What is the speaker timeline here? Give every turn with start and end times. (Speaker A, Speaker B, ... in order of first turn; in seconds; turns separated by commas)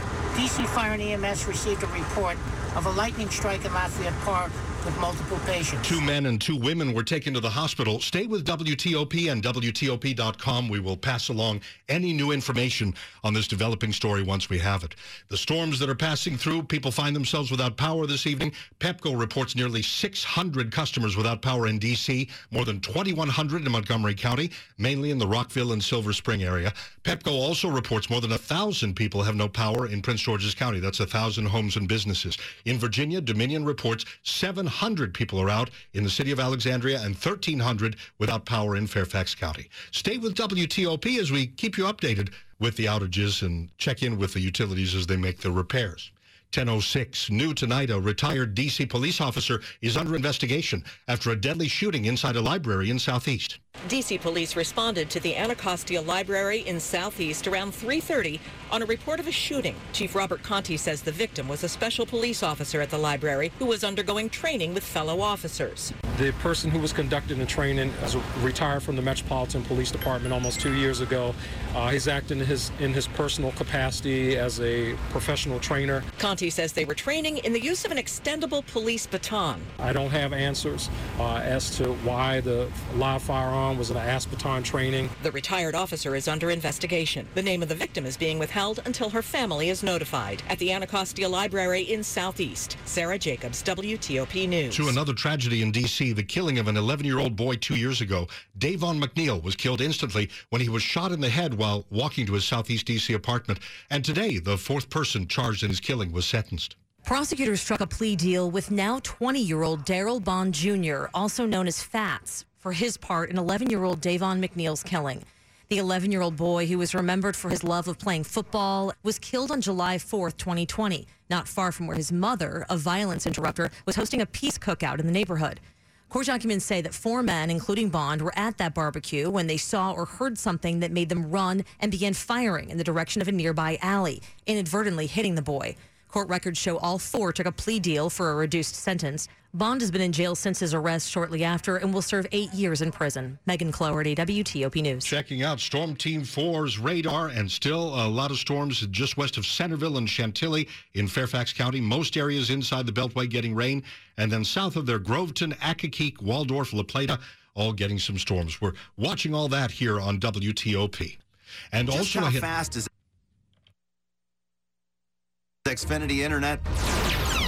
Speaker A: 0.4-5.9, Speaker B: 5.8-53.6, Speaker C: 53.8-65.9, Speaker D: 66.0-76.1, Speaker C: 76.1-79.7, Speaker D: 79.8-85.1, Speaker C: 85.2-95.0, Speaker B: 94.7-106.7, Speaker E: 107.0-145.1, Speaker B: 145.0-161.2, Speaker B: 161.7-162.5, Speaker F: 161.9-162.9, Speaker F: 165.7-166.6